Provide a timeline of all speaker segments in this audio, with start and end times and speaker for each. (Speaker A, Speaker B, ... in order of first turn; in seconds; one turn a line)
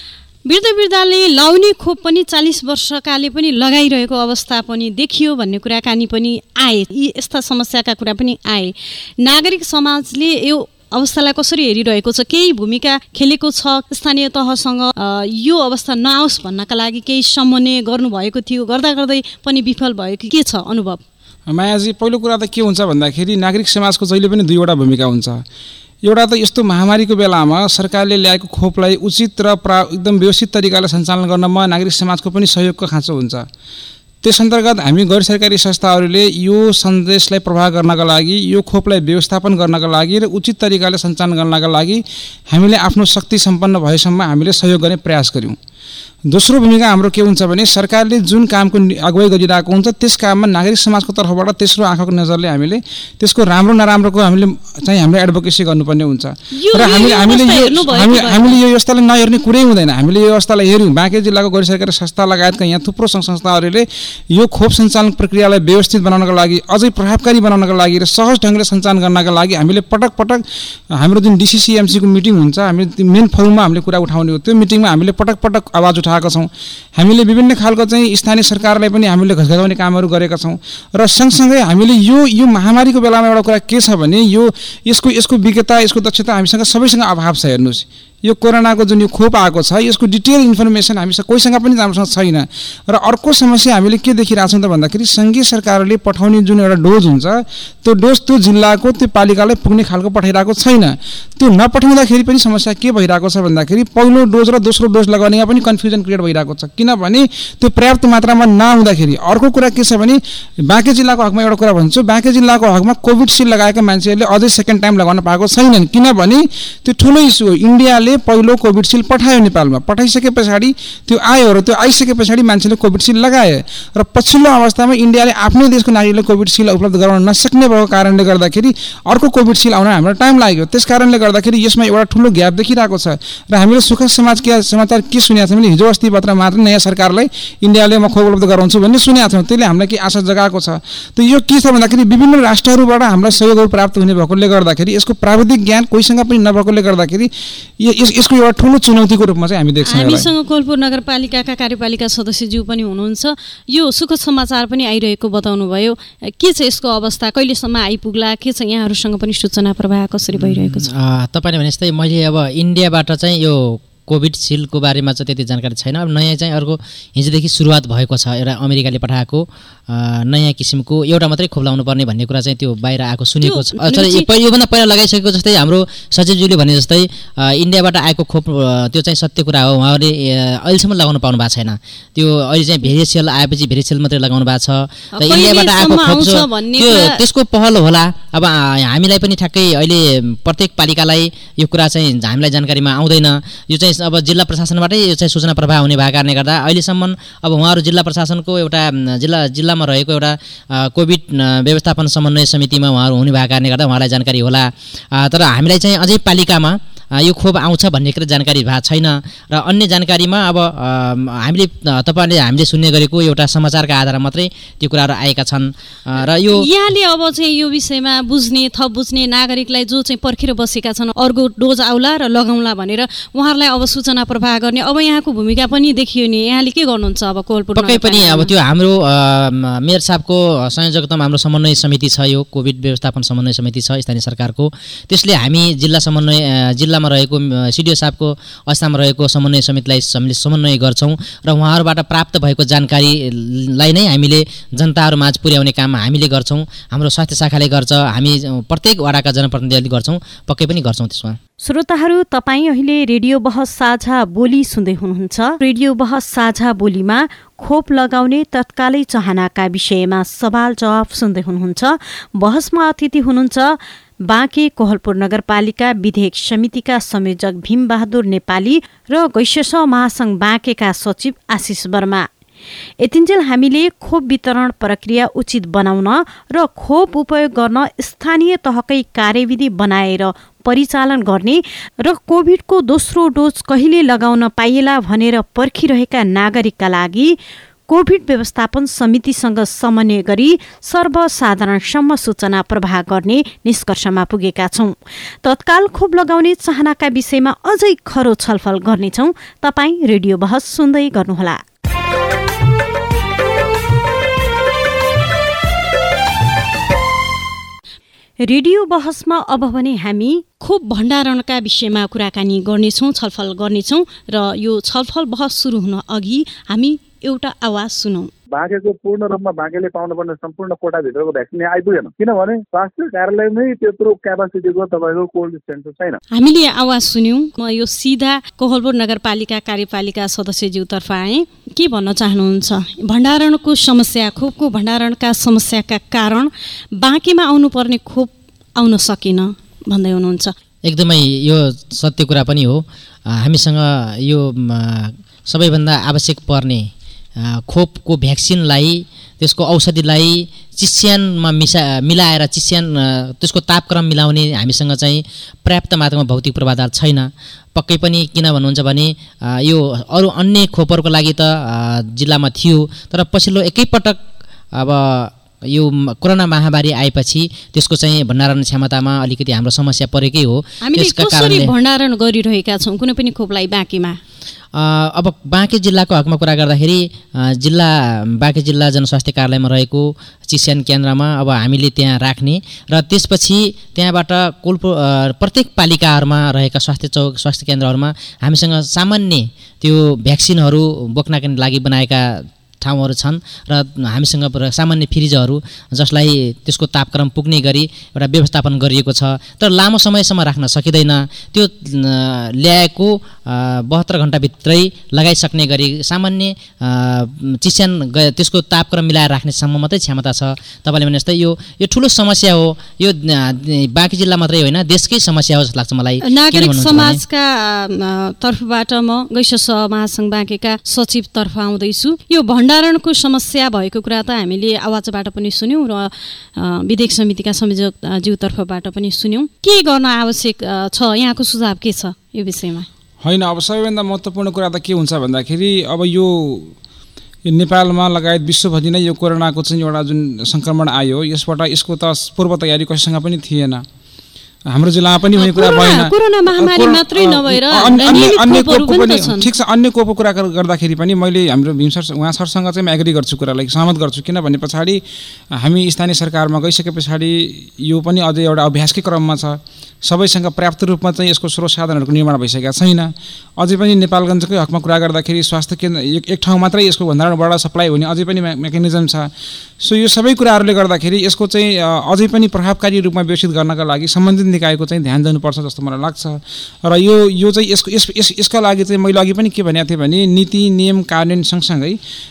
Speaker A: 0.5-21.0
Speaker B: 21.5-25.4
Speaker B: 26.0-33.5
Speaker B: 34.2-45.6
Speaker B: 46.3-70.4
Speaker A: 56.6-58.6
Speaker B: 70.9-150.3
Speaker A: 149.8-160.9
Speaker C: 160.3-216.7
Speaker A: 173.4-174.3
Speaker A: 185.1-187.2
Speaker A: 216.5-228.5
Speaker C: 227.8-251.4
Speaker A: 251.6-263.8
Speaker A: 264.3-272.2
Speaker A: 273.0-287.4
Speaker A: 287.9-301.6
Speaker A: 308.4-318.3
Speaker D: 318.5-326.2
Speaker A: 326.3-340.5
Speaker C: 340.8-371.7
Speaker A: 370.8-374.2
Speaker C: 374.7-417.2
Speaker A: 416.2-432.9
Speaker B: 433.2-436.7
Speaker B: 437.5-443.8
Speaker B: 444.7-455.0
Speaker A: 445.4-449.5
Speaker B: 455.6-469.3
Speaker B: 469.8-482.0